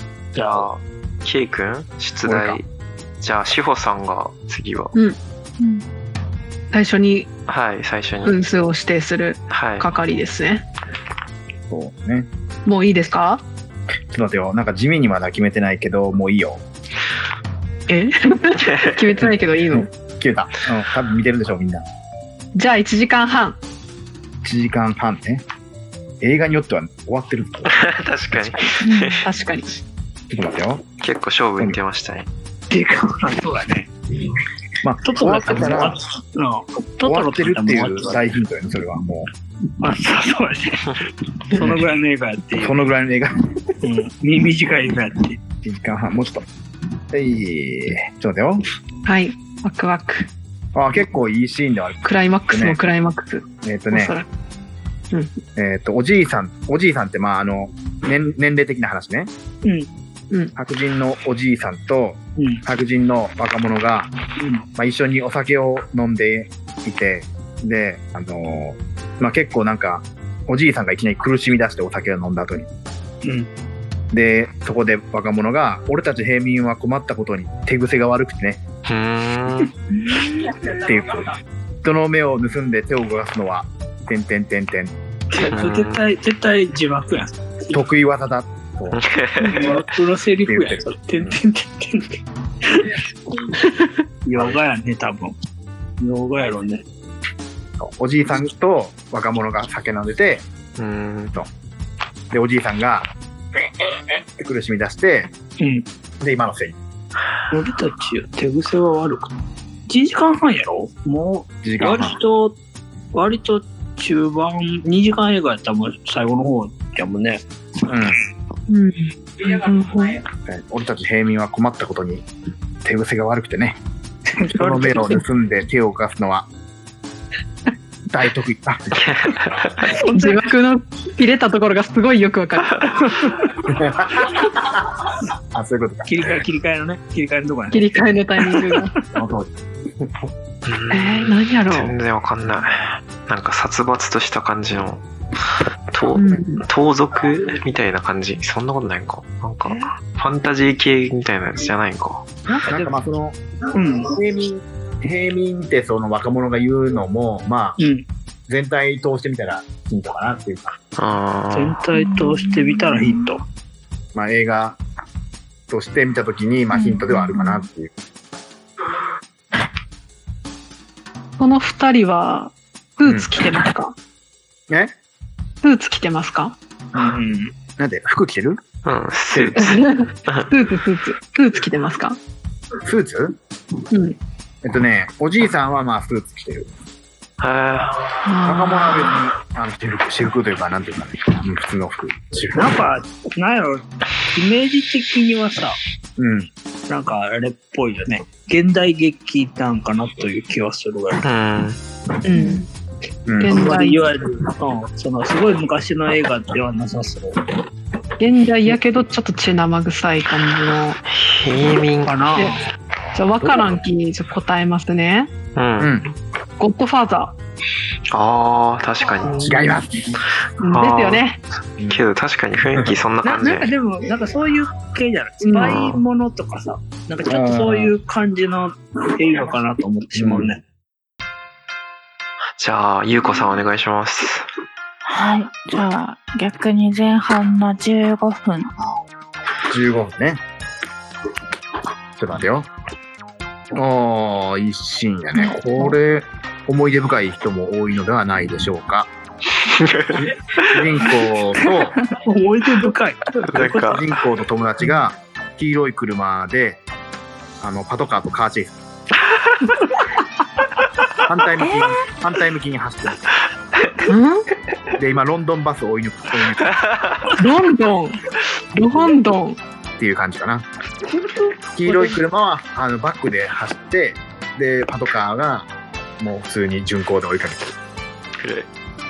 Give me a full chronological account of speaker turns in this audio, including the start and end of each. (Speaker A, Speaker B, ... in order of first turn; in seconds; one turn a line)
Speaker A: 0.3-0.7
Speaker B: 0.3-2.7
Speaker C: 2.2-2.6
Speaker B: 3.2-4.9
Speaker D: 6.7-7.3
Speaker B: 7.5-8.4
Speaker D: 8.2-10.6
Speaker B: 9.5-9.9
Speaker C: 11.7-12.3
Speaker D: 12.6-13.4
Speaker C: 14.1-16.6
Speaker D: 17.9-19.9
Speaker C: 19.7-21.8
Speaker D: 22.5-23.6
Speaker C: 24.4-25.4
Speaker C: 26.2-27.8
Speaker B: 27.7-29.2
Speaker E: 28.8-29.2
Speaker D: 29.2-29.8
Speaker C: 30.3-30.8
Speaker B: 31.0-32.3
Speaker A: 32.7-33.9
Speaker C: 34.8-36.0
Speaker A: 35.0-38.2
Speaker C: 37.0-39.3
Speaker A: 39.8-42.8
Speaker C: 42.6-43.5
Speaker A: 43.8-45.4
Speaker C: 45.6-46.5
Speaker C: 47.1-48.6
Speaker D: 49.0-50.3
Speaker C: 50.7-52.8
Speaker D: 52.0-54.3
Speaker C: 53.6-54.2
Speaker D: 55.1-55.4
Speaker C: 55.5-59.3
Speaker C: 60.5-64.1
Speaker C: 64.7-72.7
Speaker C: 74.1-78.6
Speaker B: 78.8-79.7
Speaker C: 80.6-81.3
Speaker C: 81.8-84.9
Speaker A: 85.3-87.8
Speaker B: 85.4-86.0
Speaker C: 87.7-89.0
Speaker B: 88.9-89.8
Speaker A: 89.4-93.0
Speaker C: 90.4-91.3
Speaker A: 94.2-95.3
Speaker A: 96.0-96.8
Speaker C: 97.8-100.5
Speaker B: 100.8-101.3
Speaker C: 102.3-103.1
Speaker C: 104.4-105.3
Speaker A: 105.6-105.8
Speaker C: 106.2-106.8
Speaker A: 107.5-109.3
Speaker A: 109.9-112.5
Speaker C: 111.6-112.2
Speaker A: 113.1-117.4
Speaker C: 117.9-118.2
Speaker D: 118.7-120.2
Speaker C: 120.5-122.2
Speaker C: 122.8-123.8
Speaker A: 124.3-125.2
Speaker C: 124.5-126.5
Speaker C: 128.1-129.0
Speaker B: 129.0-130.0
Speaker A: 129.9-130.4
Speaker D: 130.1-133.0
Speaker A: 133.0-133.5
Speaker C: 133.7-134.8
Speaker C: 135.5-136.1
Speaker A: 136.1-137.8
Speaker D: 137.7-138.9
Speaker A: 138.4-138.8
Speaker C: 139.1-139.5
Speaker C: 140.0-140.3
Speaker B: 140.7-145.0
Speaker D: 140.9-141.9
Speaker B: 145.9-152.2
Speaker D: 146.1-146.6
Speaker A: 152.6-152.9
Speaker C: 152.7-153.4
Speaker A: 153.7-154.1
Speaker C: 154.1-157.8
Speaker A: 157.8-158.1
Speaker C: 158.5-160.7
Speaker B: 161.0-161.8
Speaker A: 161.5-163.4
Speaker E: 162.4-162.8
Speaker C: 164.1-164.8
Speaker C: 165.7-167.9
Speaker E: 166.8-167.6
Speaker D: 171.4-173.9
Speaker C: 173.0-173.3
Speaker C: 174.7-174.9
Speaker D: 175.6-176.6
Speaker C: 176.9-177.2
Speaker A: 176.9-177.5
Speaker C: 177.8-178.6
Speaker B: 178.8-180.4
Speaker C: 179.3-179.8
Speaker D: 179.6-182.2
Speaker C: 182.8-183.4
Speaker D: 183.9-184.2
Speaker C: 184.6-186.7
Speaker B: 187.4-188.0
Speaker D: 188.2-189.1
Speaker C: 188.4-192.7
Speaker A: 192.6-195.8
Speaker C: 196.2-196.5
Speaker A: 196.9-201.2
Speaker B: 201.2-201.8
Speaker D: 202.2-202.6
Speaker C: 203.3-203.6
Speaker D: 203.4-204.1
Speaker A: 203.5-207.3
Speaker D: 208.2-211.0
Speaker B: 211.1-212.3
Speaker A: 212.0-212.6
Speaker D: 213.1-215.3
Speaker B: 215.6-215.9
Speaker C: 215.8-216.1
Speaker D: 216.6-217.3
Speaker B: 218.1-219.5
Speaker C: 219.4-220.2
Speaker D: 220.6-221.4
Speaker B: 220.7-221.2
Speaker B: 221.9-223.7
Speaker A: 223.2-230.6
Speaker D: 225.4-225.8
Speaker C: 227.2-227.9
Speaker C: 230.1-230.6
Speaker B: 232.6-234.5
Speaker E: 235.1-238.7
Speaker C: 239.7-240.4
Speaker C: 242.2-242.7
Speaker C: 243.7-249.1
Speaker B: 249.6-251.0
Speaker C: 250.7-252.0
Speaker A: 252.2-254.0
Speaker B: 253.4-254.0
Speaker C: 253.5-256.8
Speaker C: 257.6-258.8
Speaker B: 259.4-259.7
Speaker C: 261.3-263.2
Speaker E: 261.6-262.0
Speaker D: 264.1-264.4
Speaker C: 265.0-266.7
Speaker B: 266.6-267.4
Speaker D: 267.4-268.2
Speaker D: 268.7-269.6
Speaker C: 268.9-269.2
Speaker C: 270.0-270.6
Speaker C: 271.7-277.7
Speaker B: 278.4-278.7